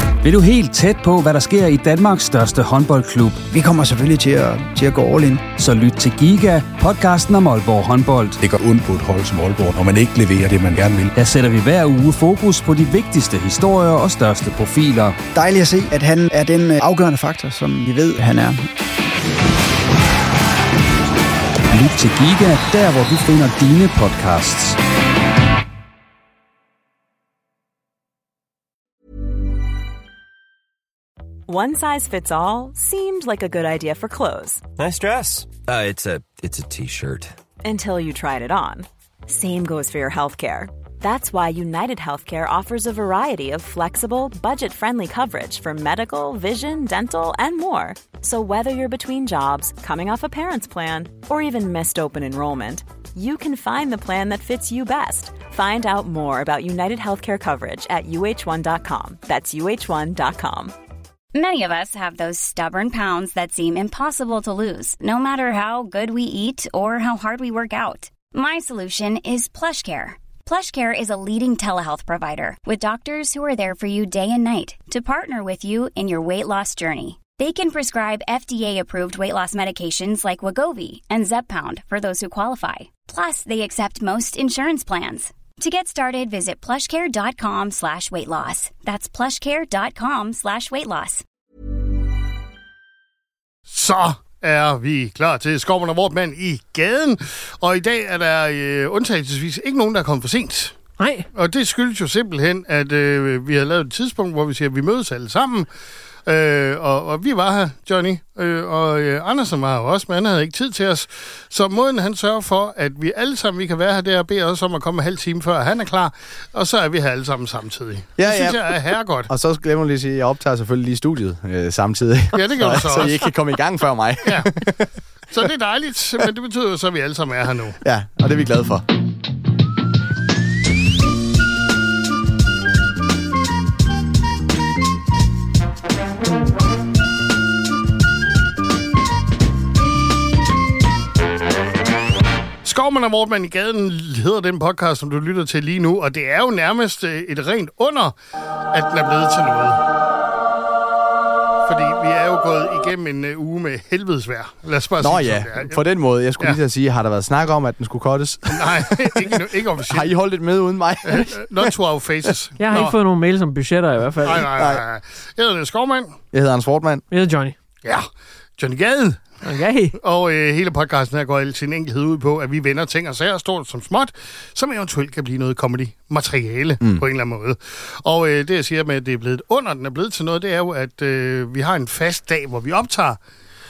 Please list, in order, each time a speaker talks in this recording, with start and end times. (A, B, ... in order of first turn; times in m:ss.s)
0:00.2-0:03.4 A
0:03.5-0:05.5 B
0:05.5-0:08.4 A
0:08.4-0:11.1 C
0:11.1-0:15.2 A
0:15.3-0:18.6 B
0:21.7-0:24.8 A
0:31.5-0:34.7 D
0:34.8-0:37.3 E
0:37.6-1:00.7 D
1:01.3-1:31.2 F
1:33.7-1:40.7 G
1:41.0-1:41.3 H
1:41.3-1:45.7 G
1:46.2-1:59.3 G
1:58.2-2:04.9 I
2:02.3-2:03.3 G
2:04.2-2:04.5 G
2:05.3-2:07.8 G
2:07.8-2:08.8 I
2:22.6-2:28.1 G
2:28.7-2:29.8 G
2:31.6-2:35.8 G
2:35.0-2:41.7 I
2:38.5-2:40.1 G
2:41.0-2:42.9 G
2:42.6-2:44.5 H
2:44.2-2:46.2 G
2:44.5-2:44.8 I
2:46.3-2:47.0 I
2:47.1-2:47.6 H
2:48.6-2:49.4 G
2:49.4-2:50.0 H
2:50.0-3:03.2 G